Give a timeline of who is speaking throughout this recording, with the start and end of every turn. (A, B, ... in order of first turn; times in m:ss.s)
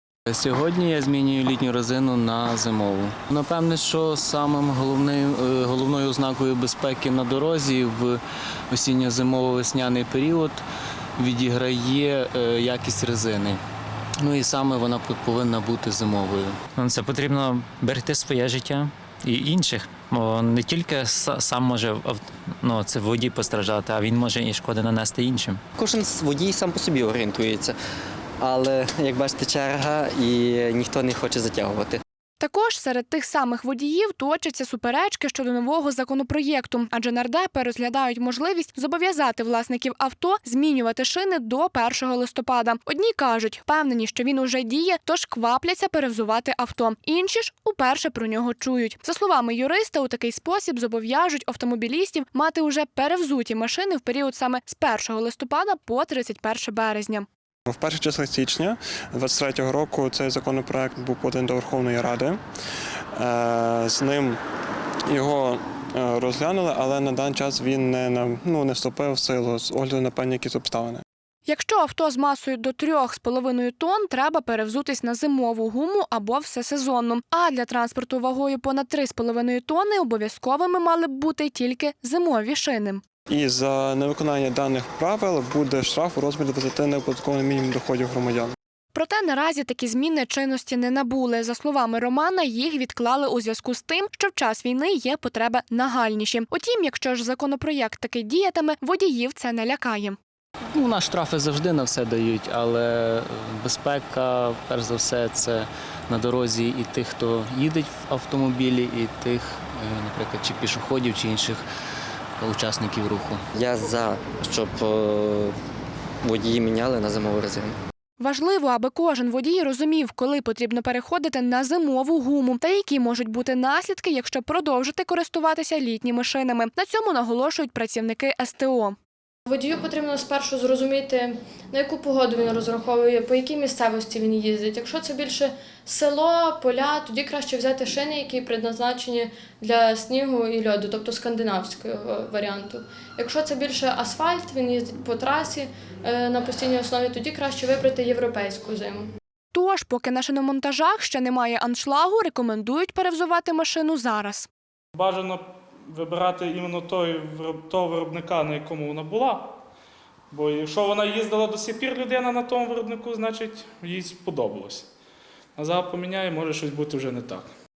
0:00.3-0:10.6 A
0:11.2-0:13.6 A
0:14.2-0:16.6 A
0:16.8-0:25.6 B
0:25.8-0:27.8 C
0:28.4-0:32.0 C
0:32.4-0:57.3 D
0:57.7-1:02.4 E
1:03.2-1:04.4 E
1:05.1-1:11.0 E
1:11.5-1:23.0 D
1:23.3-1:28.5 E
1:28.9-1:40.2 D
1:40.7-1:51.6 A
1:52.4-1:53.4 A
1:53.6-1:55.5 C
1:56.2-1:57.8 C
1:58.2-2:09.0 D
2:09.5-2:29.1 F
2:29.5-2:34.5 D
2:35.0-2:39.6 G
2:40.3-2:44.9 G
2:45.6-2:47.5 G